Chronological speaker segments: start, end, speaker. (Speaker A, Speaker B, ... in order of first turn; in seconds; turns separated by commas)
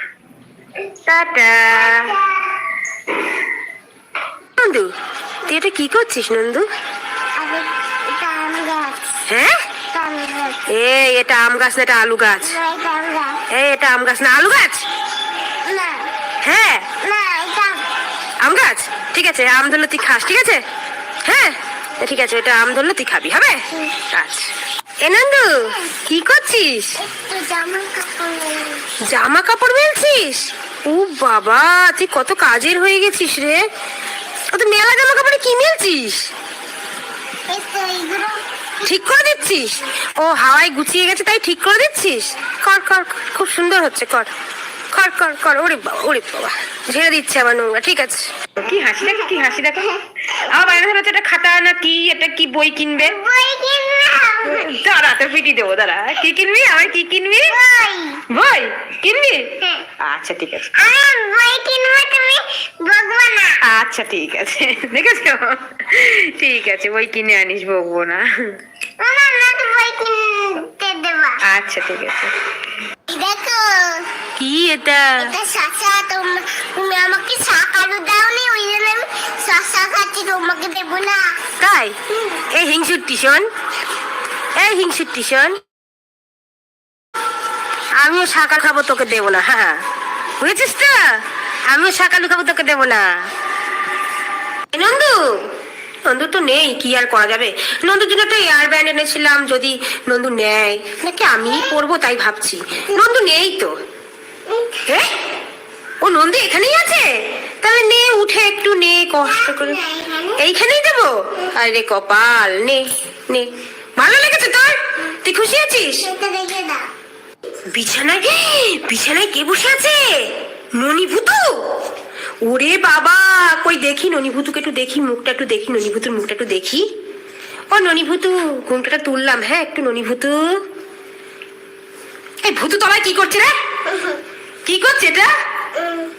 Speaker A: 1.0-2.1, Speaker B: 1.9-2.3, Speaker A: 4.6-4.9, Speaker A: 5.5-6.7, Speaker B: 7.4-9.2, Speaker A: 9.3-9.6, Speaker B: 9.9-10.6, Speaker A: 10.7-12.6, Speaker B: 12.4-13.4, Speaker A: 13.5-14.8, Speaker B: 15.6-16.1, Speaker A: 16.4-16.9, Speaker B: 17.0-17.8, Speaker A: 18.4-20.6, Speaker A: 21.2-24.5, Speaker A: 25.0-27.0, Speaker B: 27.0-28.9, Speaker A: 29.0-33.6, Speaker A: 34.5-36.3, Speaker B: 37.5-38.9, Speaker A: 38.8-44.3, Speaker A: 44.9-53.1, Speaker B: 53.0-54.6, Speaker A: 54.4-57.6, Speaker B: 57.5-58.2, Speaker A: 58.3-60.8, Speaker B: 59.6-59.9, Speaker B: 60.8-63.6, Speaker A: 63.6-68.5, Speaker B: 69.0-71.4, Speaker A: 71.4-72.3, Speaker B: 73.1-74.1, Speaker A: 74.4-75.3, Speaker B: 75.2-81.4, Speaker A: 81.6-82.0, Speaker A: 82.5-83.5, Speaker A: 84.5-85.6, Speaker A: 88.0-89.8, Speaker A: 90.4-93.3, Speaker A: 94.7-95.4, Speaker A: 96.1-103.7, Speaker B: 101.5-101.8, Speaker B: 104.5-104.8, Speaker A: 104.9-105.1, Speaker A: 106.0-107.1, Speaker A: 107.6-109.8, Speaker B: 109.3-110.4, Speaker A: 110.4-116.1, Speaker B: 116.0-116.9, Speaker A: 117.7-121.7, Speaker A: 122.4-126.9, Speaker A: 127.7-130.6, Speaker A: 132.4-133.5, Speaker B: 133.9-134.2, Speaker A: 134.7-135.3, Speaker B: 135.7-136.1